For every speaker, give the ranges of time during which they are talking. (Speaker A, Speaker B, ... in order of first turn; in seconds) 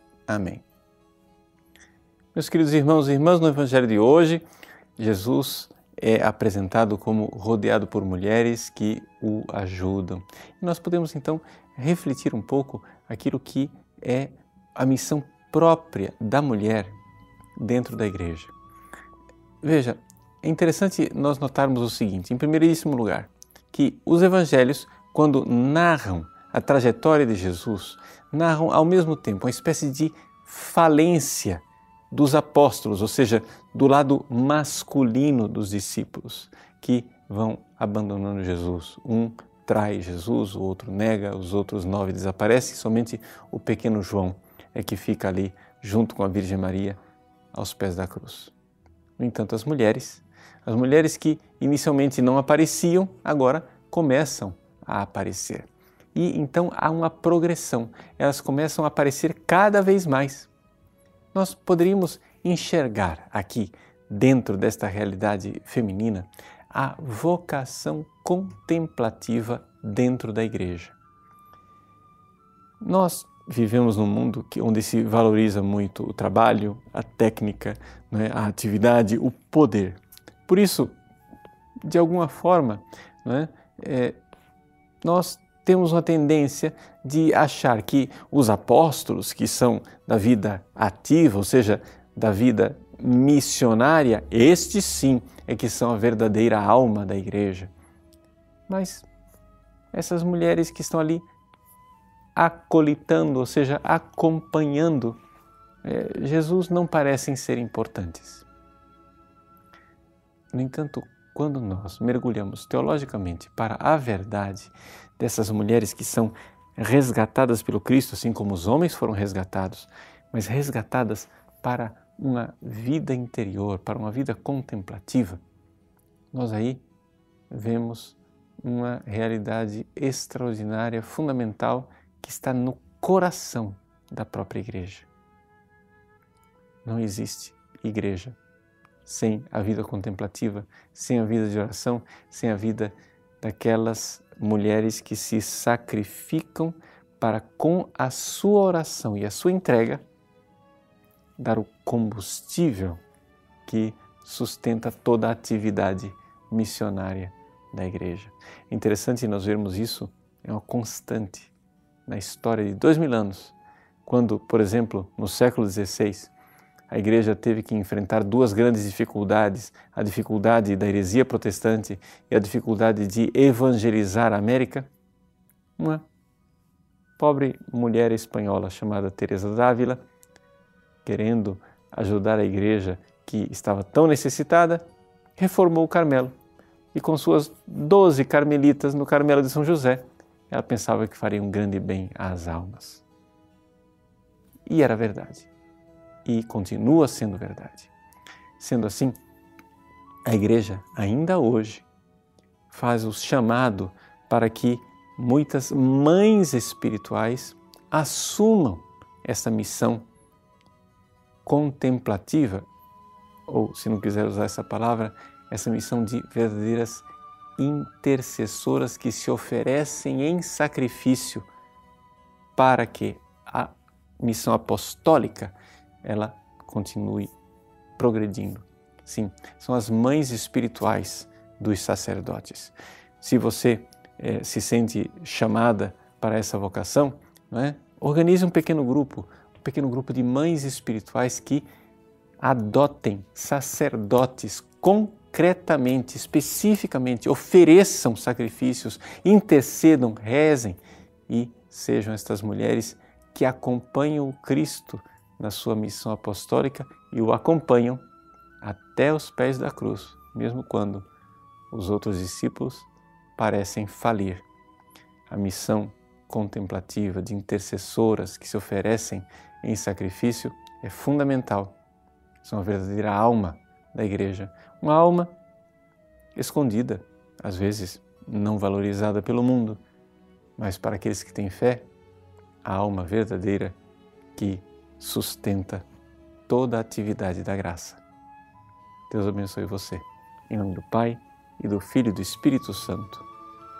Speaker A: 0.3-0.6, 2.3-4.5, 5.0-17.0, 17.6-18.5, 19.6-47.0, 47.5-48.5, 49.2-60.5, 61.3-71.0, 72.8-80.9, 81.8-84.2, 85.0-97.7, 98.7-99.1, 99.9-101.2, 102.3-105.2, 105.8-108.5, 110.5-125.4, 126.3-126.8, 127.5-135.1, 136.8-138.4, 139.0-150.0, 151.4-153.0, 153.7-161.5, 162.1-166.3, 166.9-174.9, 175.8-176.0, 177.2-180.0, 181.0-186.3, 186.9-193.0, 194.7-195.5, 196.2-197.9, 198.6-199.2, 200.2-201.8, 202.7-210.1, 211.4-212.7, 213.5-221.5, 222.6-227.3, 228.0-241.7, 242.4-258.0, 258.6-261.1, 261.7-264.4, 265.3-271.8, 272.4-275.3, 276.3-279.8, 280.6-281.9, 282.6-283.8, 284.3-285.8, 286.5-288.0, 289.1-293.3